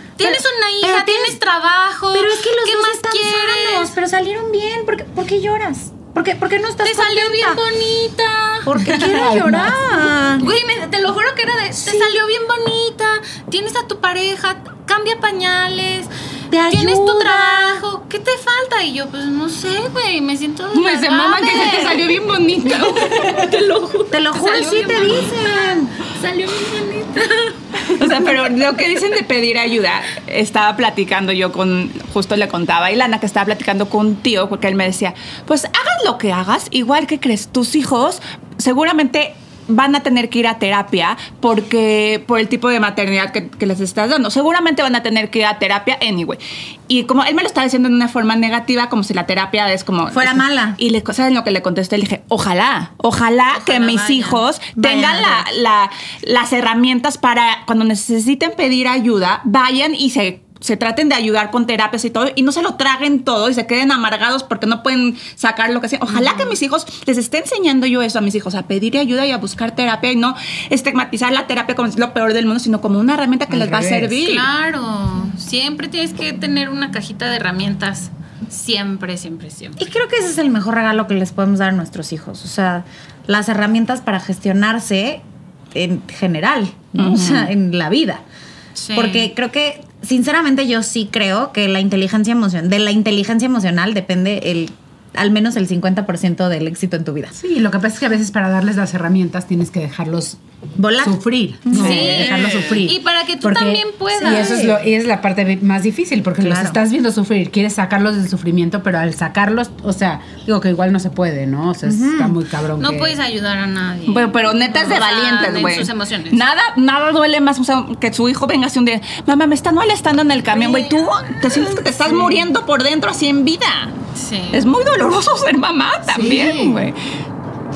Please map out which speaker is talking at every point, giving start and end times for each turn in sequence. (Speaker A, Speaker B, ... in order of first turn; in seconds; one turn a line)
Speaker A: 0.2-3.9
Speaker B: 0.2-1.4
Speaker B: 2.1-7.6
Speaker A: 6.8-9.0
Speaker B: 8.7-10.5
Speaker C: 8.9-9.7
Speaker A: 10.4-16.1
Speaker B: 11.8-12.2
Speaker B: 16.5-17.8
Speaker A: 16.7-22.0
Speaker D: 20.7-24.2
Speaker B: 24.1-26.0
Speaker A: 24.3-28.0
Speaker D: 27.8-74.5
Speaker B: 50.1-50.8
Speaker A: 53.5-54.4
Speaker B: 54.8-55.5
Speaker C: 73.5-74.2
Speaker A: 74.2-79.8
Speaker B: 79.8-88.2
Speaker D: 87.0-87.5
Speaker A: 88.8-89.3
Speaker B: 88.9-97.4
Speaker C: 97.4-100.4
Speaker B: 100.8-102.4
Speaker C: 101.0-113.2
Speaker A: 101.8-104.7
Speaker D: 102.3-102.8
Speaker B: 104.1-104.8
Speaker B: 106.4-106.8
Speaker B: 111.8-112.4
Speaker A: 112.8-116.4
Speaker D: 114.1-124.0
Speaker A: 124.2-124.7
Speaker D: 124.5-127.0
Speaker C: 126.1-126.9